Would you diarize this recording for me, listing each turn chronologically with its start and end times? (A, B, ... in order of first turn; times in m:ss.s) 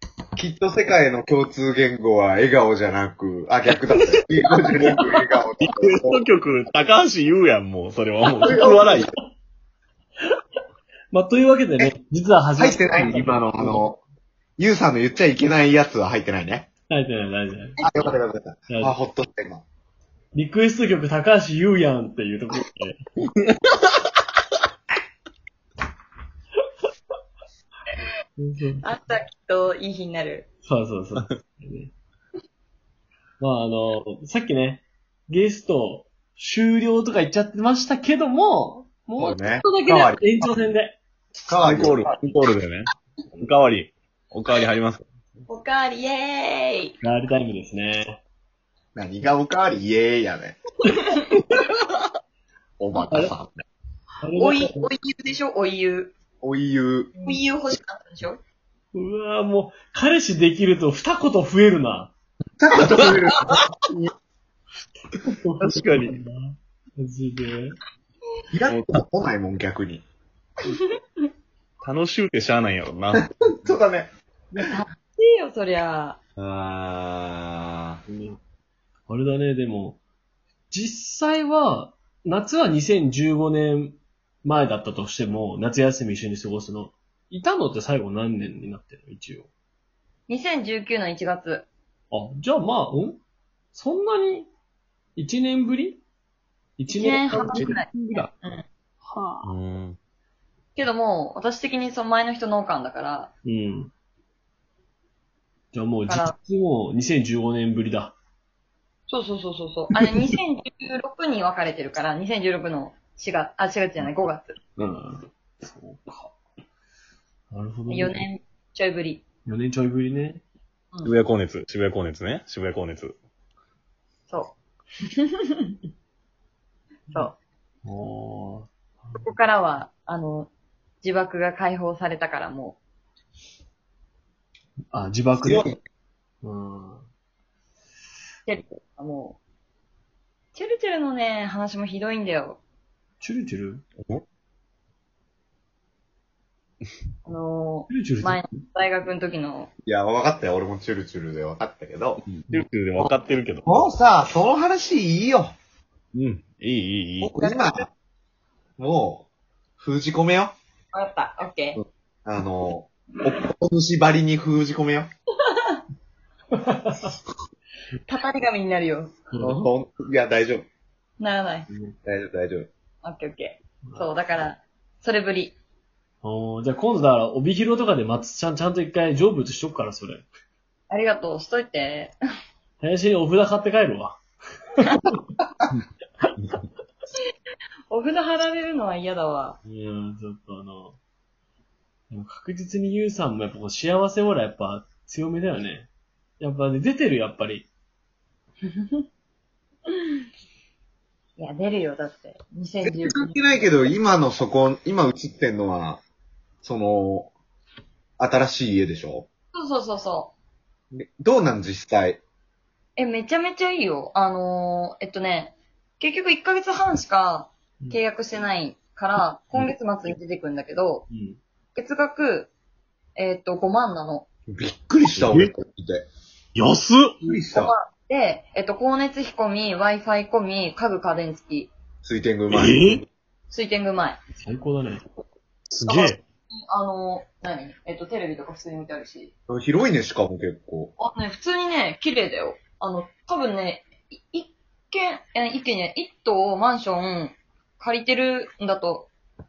0:00.4-0:06.2 A
0:04.8-0:05.1 B
0:05.6-0:09.1 B
0:08.4-0:09.1 A
0:11.1-0:13.9 C
0:12.6-0:14.0 A
0:14.6-0:16.7 A
0:16.9-0:17.8 C
0:17.8-0:18.1 D
0:17.8-0:19.6 A
0:18.7-0:19.0 C
0:20.3-0:23.0 C
0:23.4-0:23.8 B
0:28.4-0:28.8 C
0:28.8-0:30.5 D
0:30.6-0:31.9 C
0:33.4-0:41.0 C
0:39.2-0:40.5 A
0:41.5-0:42.2 A
0:41.6-0:45.0 B
0:45.5-0:47.0 D
0:47.0-0:48.2 C
0:49.0-0:50.6 A
0:52.8-0:53.6 A
0:53.1-0:53.3 C
0:54.2-0:54.9 C
0:54.4-0:56.1 D
0:56.4-0:57.1 A
0:57.2-0:58.4 D
0:58.9-1:02.1 C
1:02.6-1:04.1 A
1:02.8-1:03.6 B
1:05.3-1:07.8 C
1:05.6-1:06.2 B
1:08.5-1:10.0 A
1:08.7-1:09.0 B
1:10.7-1:11.3 D
1:11.8-1:13.2 B
1:13.2-1:14.1 A
1:14.6-1:16.2 D
1:16.4-1:18.0 A
1:18.1-1:18.4 C
1:19.1-1:20.0 C
1:20.7-1:29.5 C
1:30.3-1:31.7 D
1:32.1-1:33.2 C
1:33.7-1:34.5 C
1:35.2-1:36.0 C
1:36.8-1:38.3 C
1:36.9-1:38.6 D
1:37.4-1:37.8 B
1:39.0-1:39.5 C
1:39.4-1:40.0 B
1:40.8-1:43.3 D
1:43.4-1:43.9 C
1:45.7-1:48.2 C
1:46.1-1:46.4 D
1:49.1-1:54.6 D
1:54.8-1:56.4 C
1:57.5-1:58.2 C
1:57.9-1:59.2 D
1:59.5-2:00.4 C
2:01.0-2:03.2 B
2:04.3-2:04.6 D
2:05.2-2:05.7 D
2:07.1-2:07.4 D
2:07.8-2:09.3 C
2:09.2-2:10.5 D
2:11.0-2:12.8 D
2:14.9-2:15.7 C
2:15.4-2:15.8 A
2:16.4-2:17.1 C
2:18.5-2:19.4 D
2:20.5-2:22.6 D
2:23.2-2:23.8 C
2:27.2-2:29.7 D
2:27.9-2:28.6 C
2:29.8-2:32.2 A
2:32.2-2:33.8 B
2:33.7-2:35.6 A
2:36.1-2:37.4 B
2:37.2-2:37.9 A
2:38.8-2:39.3 A
2:39.8-2:40.5 A
2:40.9-2:41.8 D
2:41.8-2:45.1 A
2:45.4-2:45.8 D
2:46.5-2:47.1 C
2:48.1-2:49.2 D
2:49.3-2:49.7 C
2:49.4-2:50.6 A
2:51.2-2:51.7 D
2:51.7-2:52.0 C
2:52.0-2:52.7 A
2:53.0-2:55.6 D
2:56.2-3:00.3 C
3:00.9-3:02.2 D
3:02.8-3:04.2 C
3:07.9-3:09.6 D
3:09.6-3:11.0 C
3:12.1-3:17.7 C
3:18.7-3:19.1 D
3:21.4-3:23.7 D
3:22.8-3:26.0 A
3:26.6-3:27.3 A
3:28.2-3:29.3 A
3:29.5-3:30.3 D
3:30.9-3:32.2 A
3:33.0-3:41.1 D
3:41.1-3:41.4 C
3:41.8-3:42.5 D
3:43.2-3:44.3 D
3:44.5-3:46.0 A
3:45.2-3:45.5 C
3:47.2-3:47.7 A
3:47.5-3:51.7 D
3:52.0-3:53.0 A
3:52.5-3:53.1 B
3:53.5-3:54.2 D
3:54.4-3:55.0 C
3:55.7-3:56.2 B
3:55.9-3:59.3 D
3:59.5-4:00.9 A
4:01.0-4:09.1 D